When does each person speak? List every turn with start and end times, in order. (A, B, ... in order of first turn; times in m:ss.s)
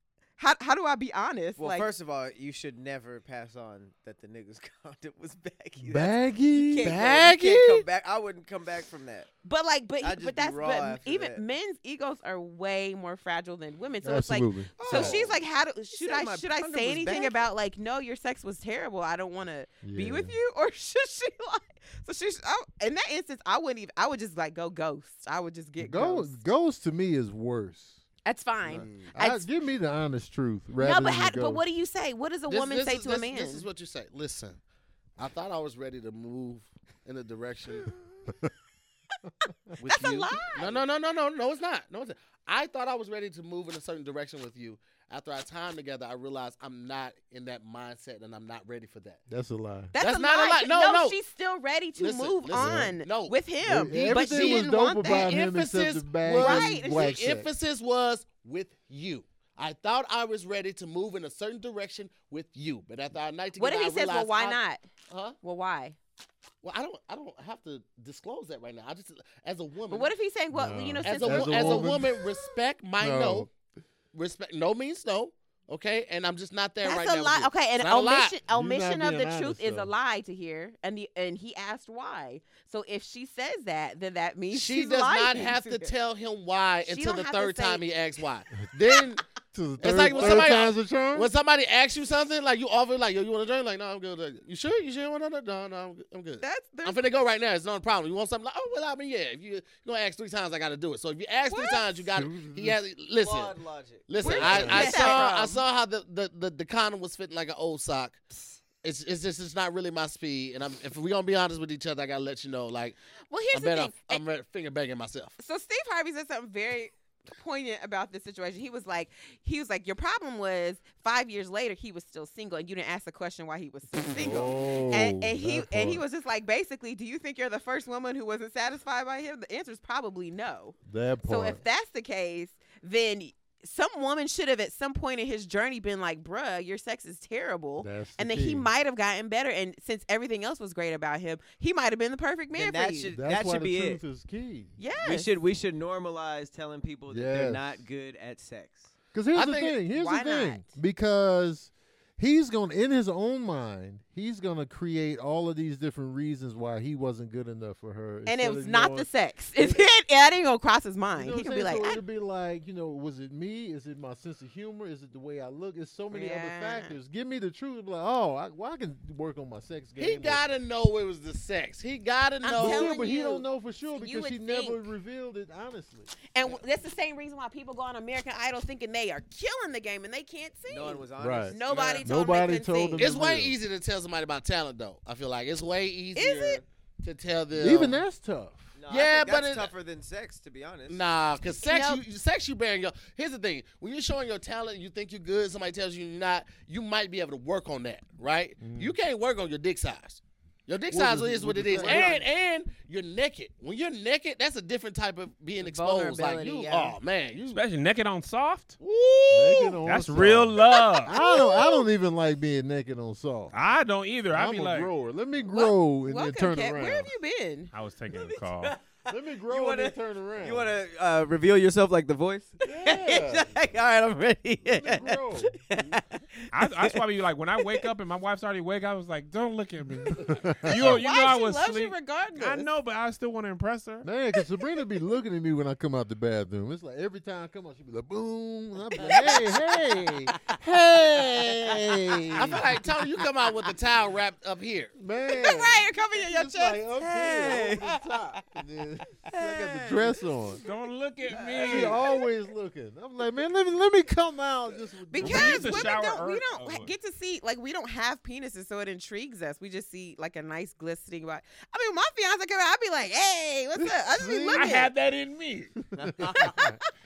0:00.4-0:01.9 A
0:01.6-0:09.3 B
0:05.8-0:07.0 C
0:06.8-0:07.8 D
0:09.4-0:26.4 A
0:10.0-0:11.4 B
0:14.0-0:15.2 C
0:14.8-0:15.3 B
0:15.9-0:17.4 B
0:19.8-0:20.3 C
0:25.8-0:28.0 C
0:28.2-0:29.5 A
0:28.7-0:29.1 D
0:29.1-0:31.6 C
0:30.8-0:33.7 A
0:32.5-0:34.6 D
0:35.2-0:38.0 D
0:39.8-0:49.2 D
0:39.8-0:40.8 A
0:49.3-0:49.9 C
0:49.9-0:55.3 A
0:50.0-0:51.2 D
0:52.0-1:05.4 D
0:52.6-0:52.9 C
0:53.6-0:57.5 C
0:56.3-0:57.3 A
1:03.6-1:04.8 A
1:05.4-1:06.0 A
1:06.6-1:10.1 D
1:09.9-1:12.2 A
1:10.5-1:12.2 C
1:11.0-1:13.5 D
1:13.0-1:13.5 C
1:14.1-1:18.4 D
1:16.8-1:25.9 A
1:18.5-1:19.9 C
1:24.5-1:29.2 D
1:26.9-1:27.8 A
1:29.5-1:31.3 C
1:29.8-1:48.2 D
1:30.1-1:30.4 A
1:36.4-1:37.0 A
1:41.5-1:42.0 A
1:42.1-1:42.8 C
1:43.2-1:45.2 B
1:44.2-1:45.6 A
1:44.2-1:45.2 C
1:48.8-1:53.0 D
1:53.3-1:54.2 A
1:53.5-1:55.4 D
1:55.4-2:23.1 A
2:04.1-2:06.0 C
2:10.8-2:11.6 C
2:17.8-2:18.7 C
2:22.5-2:24.0 B
2:23.1-2:24.7 C
2:24.8-2:25.3 A
2:25.0-2:28.9 B
2:27.1-2:27.8 C
2:29.1-2:39.1 C
2:29.3-2:29.8 D
2:29.9-2:30.7 A
2:38.2-2:42.0 A
2:39.6-2:39.8 C
2:41.1-2:50.4 C
2:46.1-2:47.0 A
2:50.0-2:53.1 D
2:52.4-2:54.8 A
2:52.5-2:56.1 C
2:56.3-3:03.0 A
3:00.7-3:01.9 B
3:01.2-3:03.5 C
3:01.7-3:02.0 D
3:03.0-3:08.0 D
3:06.1-3:06.6 A
3:07.5-3:08.7 C
3:08.7-3:11.0 B
3:08.9-3:09.7 D
3:10.9-3:27.6 D
3:11.6-3:12.0 A
3:18.6-3:18.9 C
3:20.9-3:22.3 C
3:21.8-3:22.2 A
3:25.6-3:27.0 A
3:27.5-3:28.8 E
3:28.8-3:29.8 D
3:29.3-3:33.5 C
3:29.8-3:31.2 E
3:30.6-3:31.9 A
3:33.5-3:34.9 E
3:34.3-3:37.1 C
3:35.5-3:37.7 A
3:37.7-3:38.8 E
3:38.1-3:47.0 B
3:39.1-3:40.7 C
3:42.6-3:43.5 C
3:44.6-3:45.6 C
3:46.5-3:54.1 E
3:47.6-3:47.9 B
3:50.2-3:51.0 C
3:50.7-3:52.7 A
3:54.0-4:02.7 C
3:59.0-3:59.6 A
3:59.0-3:59.7 B
4:02.3-4:04.9 D
4:05.0-4:10.6 C
4:05.3-4:08.0 A
4:07.1-4:07.8 B
4:09.3-4:10.0 A
4:09.4-4:10.1 B
4:10.6-4:12.0 E
4:11.4-4:11.9 B
4:11.6-4:15.9 C
4:11.8-4:12.2 A
4:15.1-4:24.9 A
4:15.2-4:16.9 E
4:23.8-4:24.8 C
4:24.5-4:25.8 E
4:25.9-4:26.7 B
4:26.1-4:26.8 C